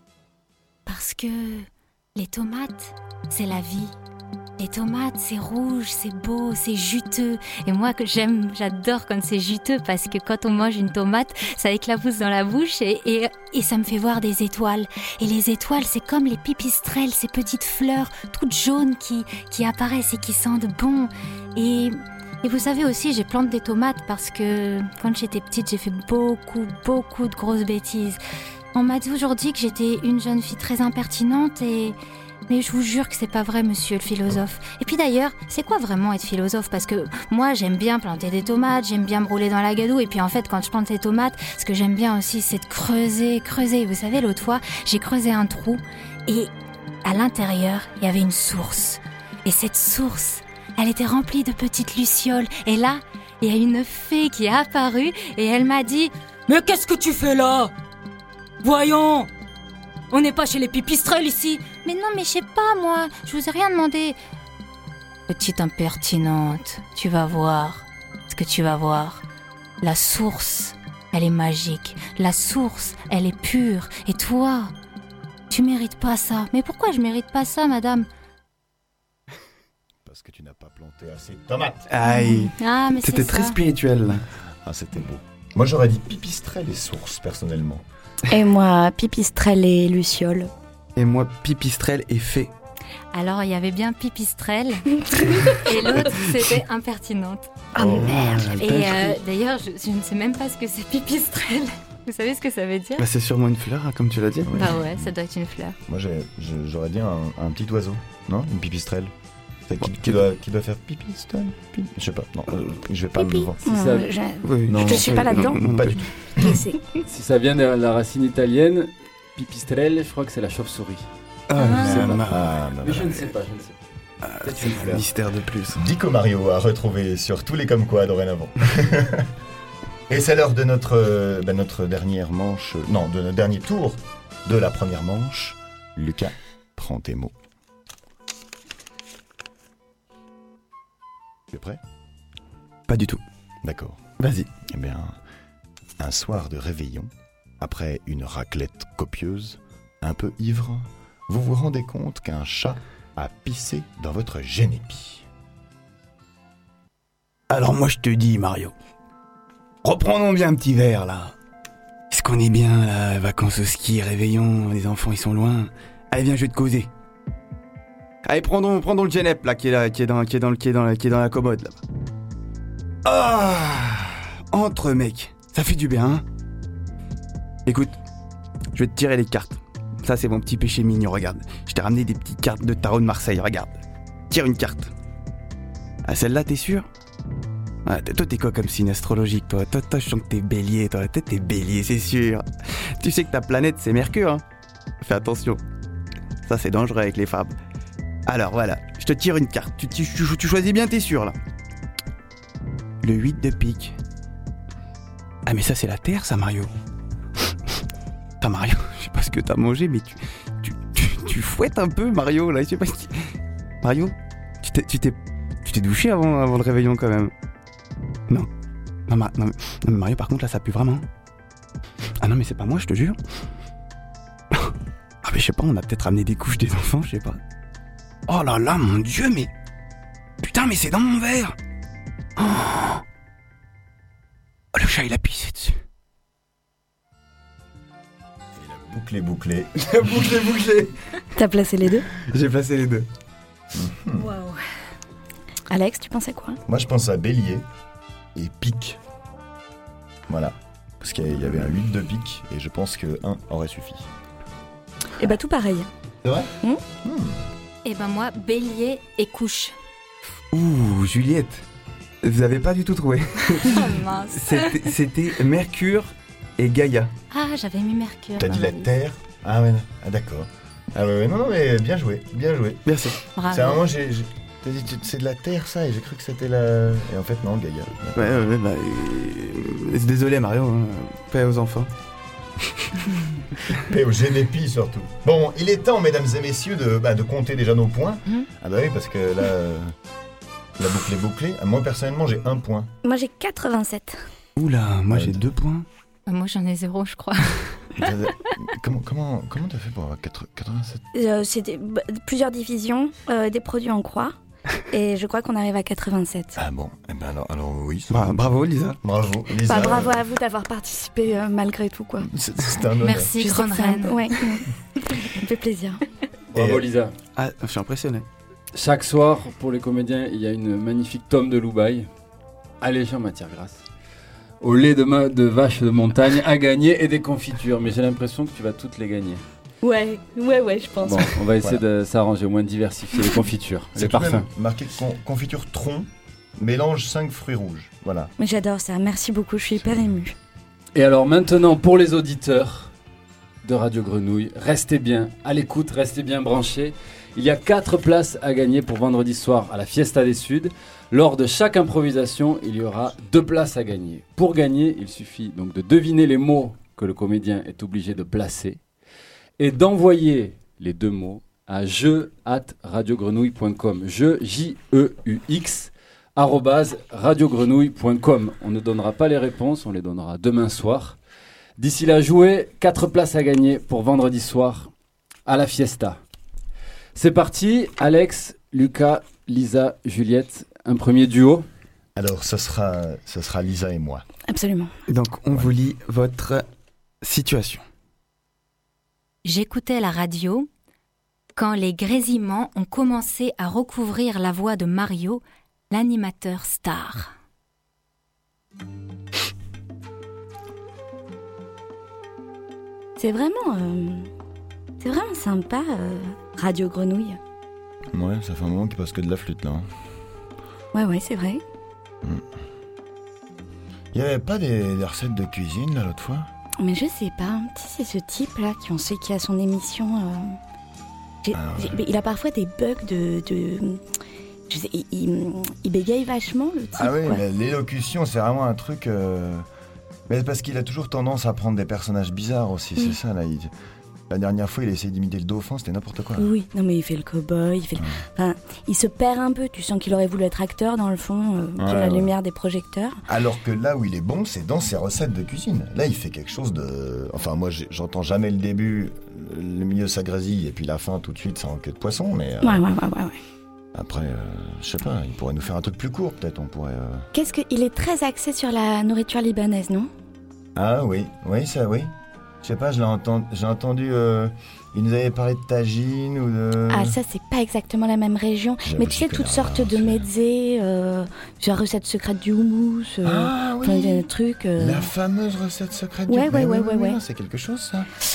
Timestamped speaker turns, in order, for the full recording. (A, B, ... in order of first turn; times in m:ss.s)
0:00.8-0:04.0 A
0:04.6-0:28.2 A
0:28.7-0:32.0 A
0:32.5-0:46.5 A
0:47.0-0:57.7 A
0:58.6-0:59.3 A
1:00.1-1:04.2 A
1:05.3-1:09.2 A
1:09.8-1:14.7 A
1:15.5-1:18.1 A
1:20.0-1:21.8 B
1:21.9-1:24.2 C
1:22.0-1:23.6 A
1:24.6-1:27.8 B
1:28.3-1:30.5 D
1:31.0-1:32.5 C
1:33.1-1:37.5 A
1:37.8-1:39.2 C
1:37.8-1:38.2 B
1:37.8-1:38.4 D
1:38.4-1:43.0 A
1:43.0-1:44.6 C
1:44.4-1:45.1 B
1:44.5-1:45.8 A
1:45.8-1:49.1 B
1:49.7-1:53.6 B
1:49.8-1:50.2 C
1:53.2-1:55.6 D
1:53.6-1:54.1 E
1:54.4-1:56.1 C
1:54.7-1:56.6 B
1:56.4-1:56.8 D
1:57.0-2:01.1 E
2:01.5-2:02.5 C
2:01.6-2:02.0 A
2:01.8-2:03.8 E
2:02.0-2:03.2 B
2:04.2-2:05.8 C
2:04.4-2:05.0 E
2:04.6-2:05.0 B
2:05.8-2:09.3 B
2:10.1-2:17.3 B
2:21.5-2:21.8 B
2:22.9-2:23.2 C
2:23.6-2:24.0 B
2:24.2-2:24.5 C
2:24.7-2:25.2 B
2:26.0-2:35.2 B
2:37.5-2:38.7 C
2:39.8-2:41.3 C
2:42.1-2:46.9 C
2:48.2-2:51.8 C
2:53.0-2:56.2 C
2:57.6-2:58.0 C
2:58.7-3:03.8 C
3:04.3-3:04.9 C
3:06.0-3:06.9 C
3:07.8-3:14.4 C
3:15.0-3:15.6 C
3:16.4-3:17.6 C
3:18.3-3:21.4 C
3:23.0-3:24.0 C
3:25.4-3:26.7 C
3:28.4-3:37.3 C
3:39.1-3:41.0 C
3:42.2-3:43.2 C
3:45.2-3:47.4 C
3:48.3-3:49.5 C
3:50.4-3:51.6 C
3:52.4-3:53.0 C
3:54.7-3:55.8 C
3:58.6-4:00.2 B
3:59.9-4:00.9 C
4:01.3-4:02.1 D
4:02.2-4:03.1 C
4:03.7-4:04.3 B
4:04.2-4:04.6 A
4:05.7-4:06.6 D
4:06.6-4:07.6 B
4:08.3-4:09.0 B
4:10.3-4:14.1 B
4:15.2-4:15.9 D
4:16.2-4:17.4 B
4:17.8-4:19.7 A
4:20.5-4:21.6 C
4:22.2-4:27.1 C
4:23.6-4:24.9 A
4:27.3-4:28.9 A
4:28.4-4:32.9 B
4:32.8-4:33.2 C
4:33.3-4:33.8 A
4:33.4-4:38.4 B
4:38.2-4:41.9 C
4:43.8-4:49.9 B
4:50.8-4:52.9 B
4:53.0-4:54.2 D
4:54.6-4:55.9 C
4:55.1-4:55.4 B
4:56.3-4:57.8 A
4:58.0-5:01.0 B
5:01.1-5:04.3 D
5:04.9-5:06.6 D
5:06.6-5:08.5 B
5:08.1-5:09.0 C
5:09.0-5:10.2 B
5:09.6-5:12.3 D
5:12.2-5:13.3 B
5:13.0-5:14.6 A
5:13.4-5:16.0 D
5:16.5-5:17.1 E
5:16.5-5:16.8 B
5:17.3-5:18.3 C
5:18.7-5:22.1 E
5:22.8-5:23.8 E
5:24.6-5:29.4 E
5:29.8-5:31.3 D
5:31.0-5:34.5 E
5:33.9-5:38.3 B
5:38.4-5:40.3 D
5:40.9-5:42.9 E
5:43.6-5:58.8 E
5:59.6-6:11.2 E
6:11.8-6:14.9 E
6:15.4-6:16.2 E
6:17.2-6:21.7 E
6:22.2-6:24.2 B
6:24.5-6:24.9 D
6:25.1-6:26.6 C
6:27.2-6:27.8 C
6:29.4-6:30.7 A
6:31.6-6:37.3 A
6:43.2-6:44.3 D
6:45.0-6:47.4 D
6:48.1-6:49.8 B
6:50.9-6:51.6 D
6:54.1-6:56.5 B
6:56.8-7:00.6 D
7:01.4-7:04.0 D
7:01.5-7:02.0 B
7:04.7-7:07.4 D
7:07.0-7:09.6 B
7:10.3-7:13.7 B
7:14.3-7:16.5 B
7:16.4-7:23.2 D
7:21.8-7:22.3 B
7:23.3-7:32.8 B
7:32.6-7:33.4 D
7:33.9-7:37.3 B
7:37.3-7:40.1 D
7:40.8-7:42.1 B
7:42.6-7:47.2 B
7:46.9-7:55.1 D
7:48.8-7:50.3 B
7:53.2-7:58.1 B
7:56.3-7:57.2 D